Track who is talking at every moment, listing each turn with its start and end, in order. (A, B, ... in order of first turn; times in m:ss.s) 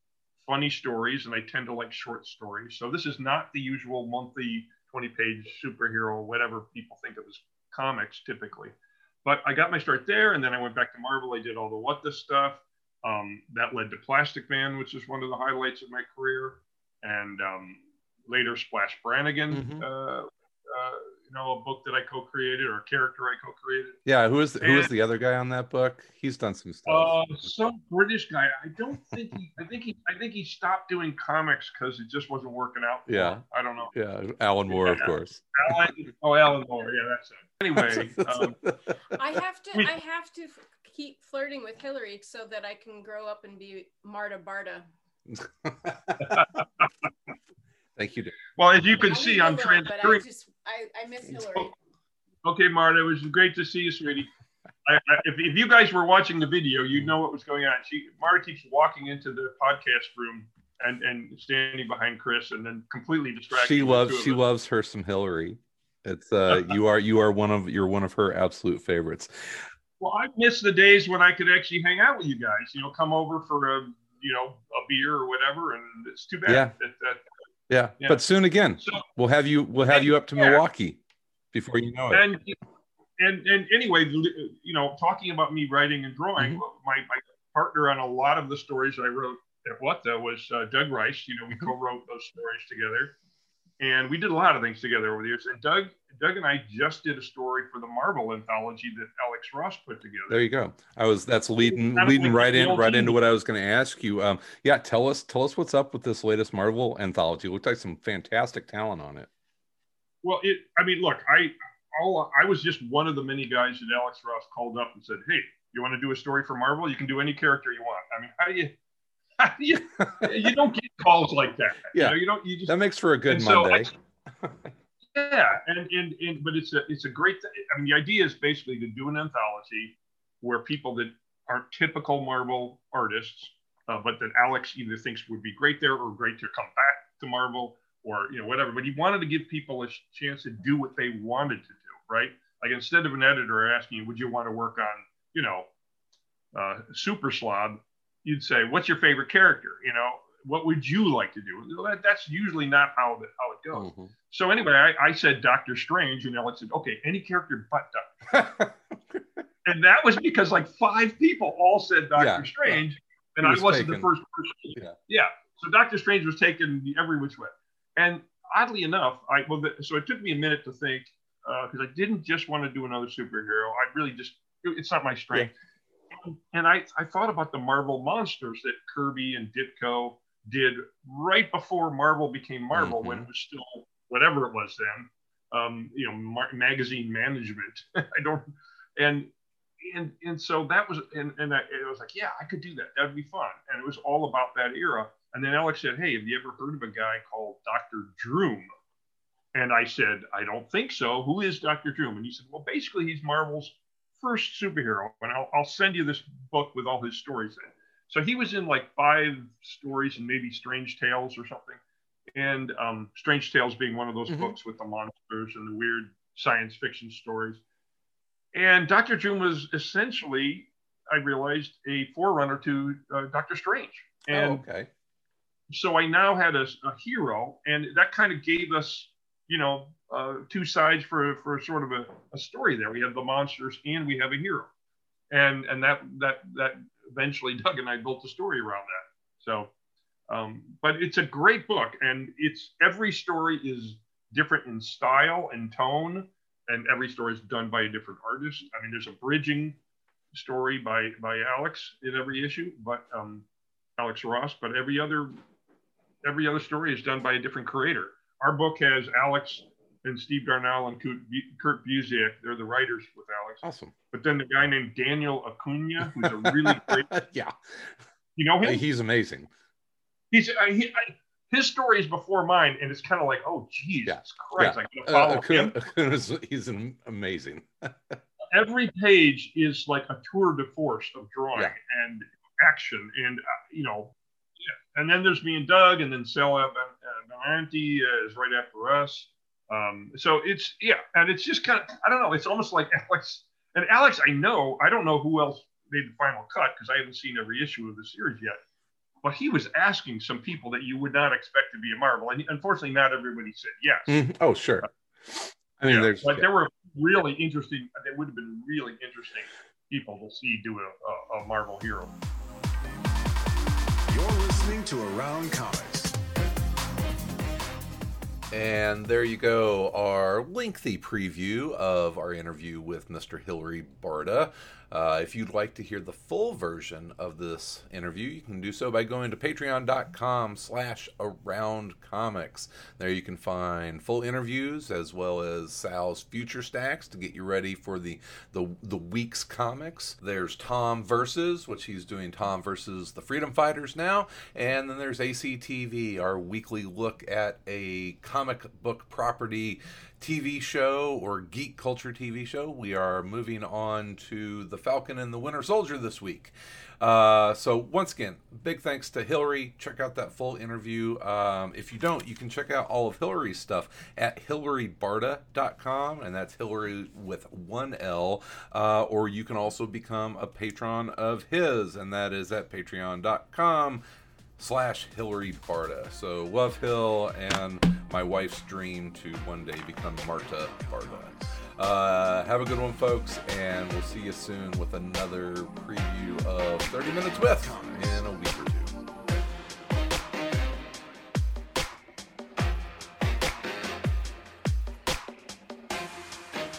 0:00.4-0:24.0 A
0:19.5-0:19.9 B
0:24.0-0:27.2 B
0:24.6-0:24.9 A
0:26.9-0:33.9 A
0:33.1-0:33.4 B
0:33.9-0:35.7 B
0:34.7-0:38.6 A
0:37.8-0:38.8 B
0:39.2-0:44.9 C
0:45.3-0:46.4 B
0:46.2-0:46.9 A
0:48.0-0:48.4 B
0:48.6-0:50.2 A
0:49.0-0:51.7 C
0:52.4-0:54.3 A
0:54.9-1:04.4 A
1:03.5-1:09.3 B
1:10.0-1:17.2 A
1:16.5-1:16.7 B
1:17.7-1:21.0 B
1:19.9-1:20.6 A
1:21.5-1:22.2 B
1:22.1-1:22.6 A
1:23.2-1:33.2 A
1:33.8-1:40.4 A
1:40.3-1:49.3 B
1:41.7-1:43.2 A
1:50.2-1:58.8 A
1:59.4-2:02.7 A
2:00.0-2:00.3 B
2:01.9-2:03.9 B
2:03.3-2:03.9 A
2:04.4-2:04.7 B
2:05.2-2:25.7 A
2:26.5-2:38.3 A
2:33.7-2:34.1 B
2:38.3-2:39.4 B
2:39.7-2:55.5 A
2:42.2-2:42.8 B
2:43.4-2:44.1 B
2:56.1-3:09.3 A
3:02.7-3:03.3 B
3:09.8-3:18.7 A
3:19.5-3:31.8 A
3:32.4-3:37.6 A
3:34.3-3:34.6 B
3:38.5-3:44.6 A
3:44.3-3:44.9 B
3:45.7-3:54.7 A
3:55.3-3:59.7 A
4:00.3-4:09.8 A
4:10.3-4:13.4 A
4:14.0-4:15.4 A
4:16.2-4:27.1 A
4:23.6-4:23.9 B
4:26.1-4:27.9 B
4:28.4-4:28.8 A
4:28.6-4:29.5 B
4:30.3-4:35.8 A
4:34.1-4:38.2 B
4:38.5-4:44.1 A
4:44.9-4:58.6 A
4:59.2-5:04.2 A
5:04.1-5:06.5 B
5:05.9-5:12.1 A
5:14.1-5:16.2 D
5:18.5-6:14.0 B
6:14.6-6:29.0 B